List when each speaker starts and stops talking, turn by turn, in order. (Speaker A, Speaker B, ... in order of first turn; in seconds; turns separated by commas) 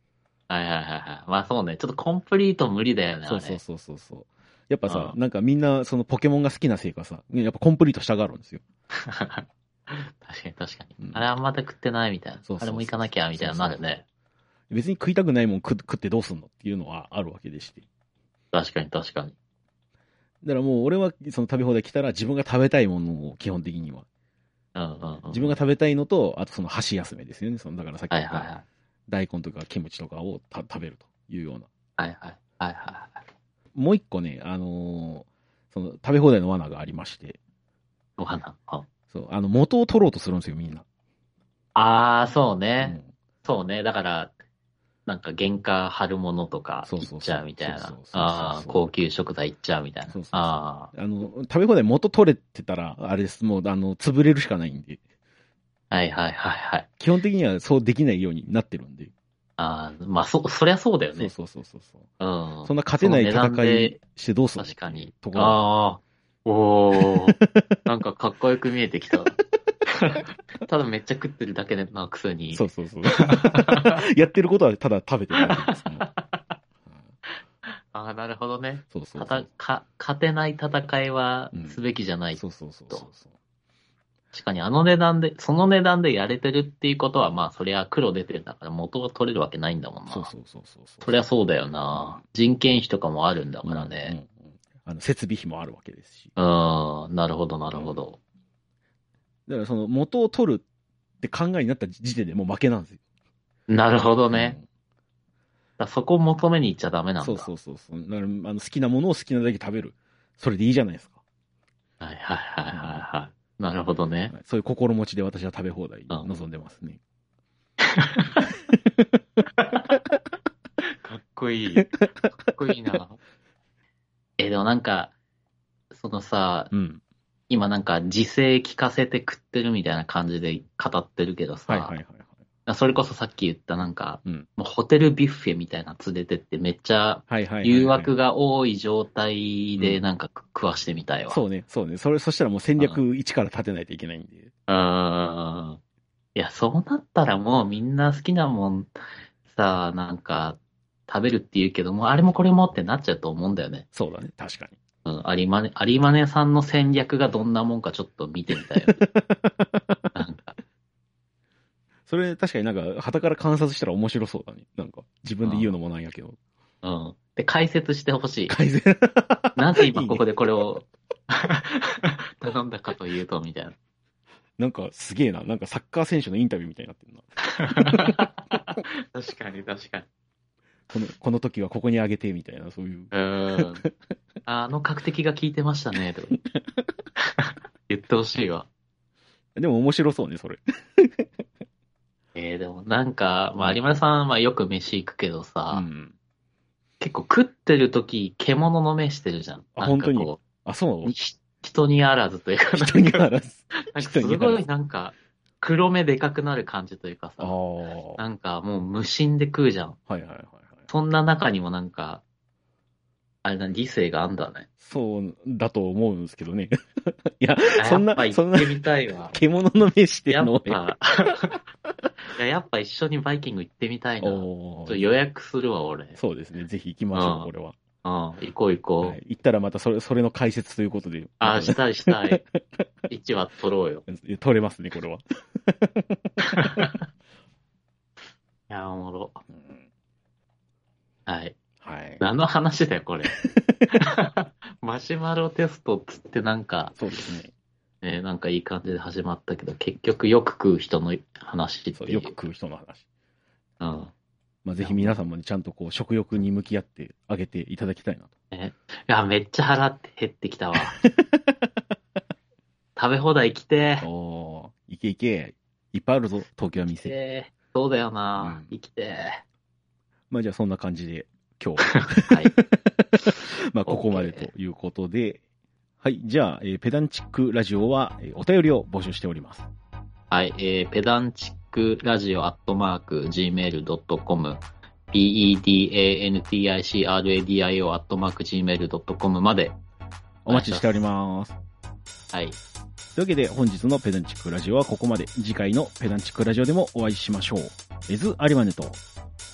Speaker A: 0.5-3.6, Speaker B: 3.2-8.6, Speaker A: 4.9-5.2, Speaker A: 9.0-14.0, Speaker B: 11.0-11.2, Speaker B: 12.4-13.8, Speaker B: 14.7-17.8, Speaker A: 18.5-19.3, Speaker B: 20.4-24.1, Speaker A: 24.7-25.6, Speaker B: 25.3-28.5, Speaker A: 28.1-28.6, Speaker B: 29.1-31.7, Speaker A: 32.0-33.2, Speaker B: 33.7-37.4, Speaker A: 38.2-38.9, Speaker B: 39.1-40.8, Speaker A: 41.7-44.3, Speaker B: 42.8-43.1, Speaker A: 45.0-50.9, Speaker B: 46.8-48.8, Speaker B: 50.1-55.0, Speaker A: 55.9-56.9, Speaker B: 57.0-59.1, Speaker A: 59.6-61.3, Speaker B: 61.1-62.1, Speaker A: 62.2-64.0, Speaker B: 62.6-65.6, Speaker A: 64.6-74.0, Speaker B: 67.0-67.8, Speaker B: 72.5-76.1, Speaker A: 75.3-76.4, Speaker A: 77.9-83.1, Speaker B: 78.9-79.5, Speaker B: 81.5-81.8, Speaker B: 82.3-83.3, Speaker A: 84.3-90.3, Speaker B: 90.1-91.2, Speaker A: 91.0-94.2, Speaker B: 91.9-92.2, Speaker B: 93.6-96.3, Speaker A: 96.4-98.2, Speaker B: 99.5-100.6, Speaker B: 101.2-103.0, Speaker A: 103.7-104.5, Speaker B: 104.3-104.6, Speaker A: 105.8-107.5, Speaker B: 107.2-111.2, Speaker A: 112.0-114.3, Speaker B: 112.7-113.0, Speaker B: 114.3-117.0, Speaker A: 117.8-118.4, Speaker A: 119.6-120.0, Speaker A: 120.9-123.2, Speaker A: 124.4-125.1, Speaker A: 125.9-126.7, Speaker B: 126.7-127.0, Speaker A: 127.5-131.9, Speaker B: 131.7-132.3, Speaker A: 132.7-141.4, Speaker B: 137.3-138.1, Speaker B: 141.3-144.5, Speaker A: 144.7-145.8, Speaker A: 146.3-148.9, Speaker A: 149.5-153.8, Speaker B: 153.9-154.8, Speaker A: 155.0-159.0, Speaker B: 158.9-160.1, Speaker A: 160.1-160.6, Speaker B: 162.1-166.4, Speaker A: 165.4-165.7, Speaker A: 166.8-168.5, Speaker B: 168.5-170.2, Speaker A: 169.6-173.8, Speaker B: 174.6-177.2, Speaker A: 177.6-180.1, Speaker B: 177.9-178.2, Speaker B: 180.9-183.9, Speaker A: 183.1-183.8, Speaker A: 184.4-186.4, Speaker A: 187.2-188.7, Speaker B: 189.6-191.3, Speaker A: 192.3-195.8, Speaker B: 195.7-196.1, Speaker A: 197.0-200.4, Speaker B: 199.8-201.1, Speaker A: 201.0-203.3, Speaker B: 202.7-204.6, Speaker A: 203.9-207.6, Speaker B: 207.4-208.2, Speaker A: 208.2-210.0, Speaker B: 210.1-210.8, Speaker A: 210.9-212.2, Speaker A: 213.4-214.7, Speaker B: 214.8-218.8, Speaker A: 217.8-219.3, Speaker B: 219.3-220.8, Speaker A: 220.3-221.6, Speaker A: 222.3-226.2, Speaker B: 224.2-225.1, Speaker B: 226.1-227.7, Speaker A: 227.1-227.5, Speaker A: 228.0-229.2, Speaker B: 229.0-232.8, Speaker A: 231.4-232.4, Speaker A: 233.1-234.0, Speaker B: 234.1-236.8, Speaker A: 236.4-237.0, Speaker A: 238.7-239.4, Speaker B: 239.5-239.8, Speaker A: 241.2-241.6, Speaker B: 241.8-242.2, Speaker A: 242.2-247.0, Speaker B: 243.3-243.8, Speaker B: 246.9-247.5, Speaker A: 248.0-252.4, Speaker B: 251.9-253.0, Speaker A: 253.8-254.1, Speaker B: 254.6-258.3, Speaker A: 254.8-255.2, Speaker A: 258.5-261.0, Speaker B: 260.9-261.5, Speaker A: 262.9-264.1, Speaker B: 264.0-267.1, Speaker A: 266.9-269.4, Speaker B: 268.4-268.7, Speaker B: 270.3-275.4, Speaker A: 271.8-272.5, Speaker A: 273.3-274.5, Speaker B: 276.0-279.7, Speaker A: 280.3-289.8, Speaker B: 290.4-291.6, Speaker A: 290.5-291.0, Speaker A: 292.3-292.6, Speaker B: 293.1-299.0